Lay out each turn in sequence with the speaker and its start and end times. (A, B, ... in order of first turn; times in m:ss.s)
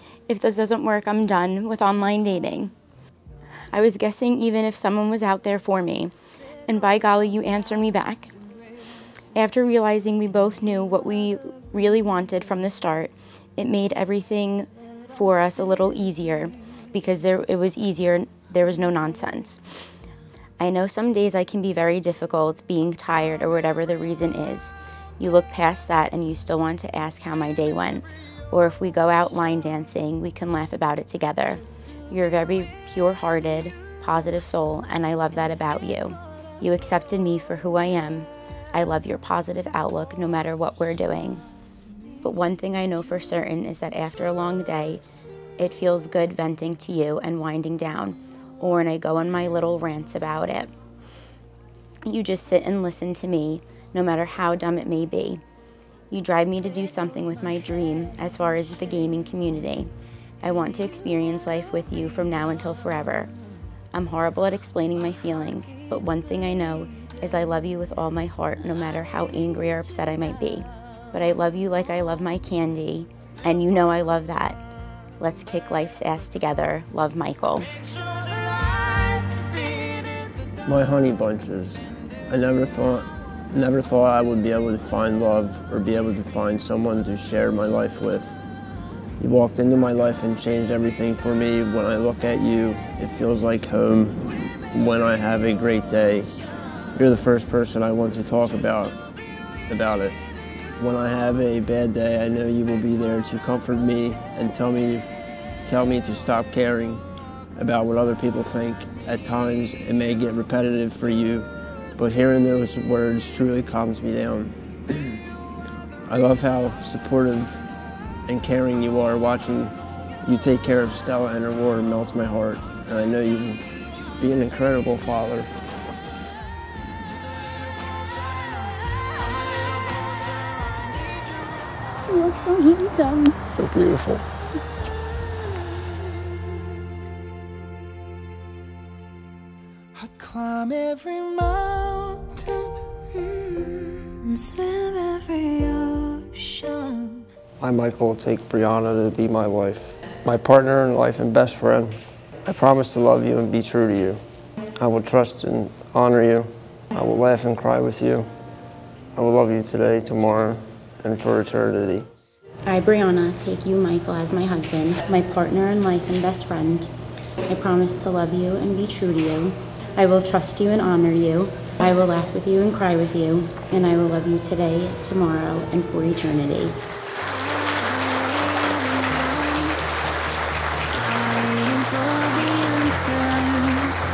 0:00.3-0:02.7 A
0:03.7-0:06.1 A
0:06.7-0:08.3 A
0:09.3-0:19.6 A
0:20.6-0:41.4 A
0:42.2-0:45.0 A
0:45.6-0:50.7 A
0:52.0-0:55.4 A
0:56.1-0:59.9 A
1:00.4-1:03.3 A
1:03.9-1:14.6 A
1:15.2-1:17.7 A
1:18.1-1:20.3 B
1:20.6-1:28.4 C
1:29.2-1:36.4 C
1:37.0-1:39.0 C
1:39.7-1:40.2 C
1:40.8-1:45.1 C
1:45.6-1:47.0 C
1:47.6-1:54.6 C
1:56.1-1:57.6 C
1:58.3-2:03.6 C
2:04.2-2:05.5 C
2:09.1-2:11.2 B
2:12.1-2:13.4 A
2:13.6-2:14.3 C
2:20.0-2:22.8 B
2:23.2-2:27.2 D
2:27.6-2:34.2 C
2:34.8-2:38.3 C
2:39.2-2:42.1 C
2:42.7-2:46.9 A
2:47.5-2:56.8 A
2:57.3-2:59.8 D
3:00.9-3:04.0 D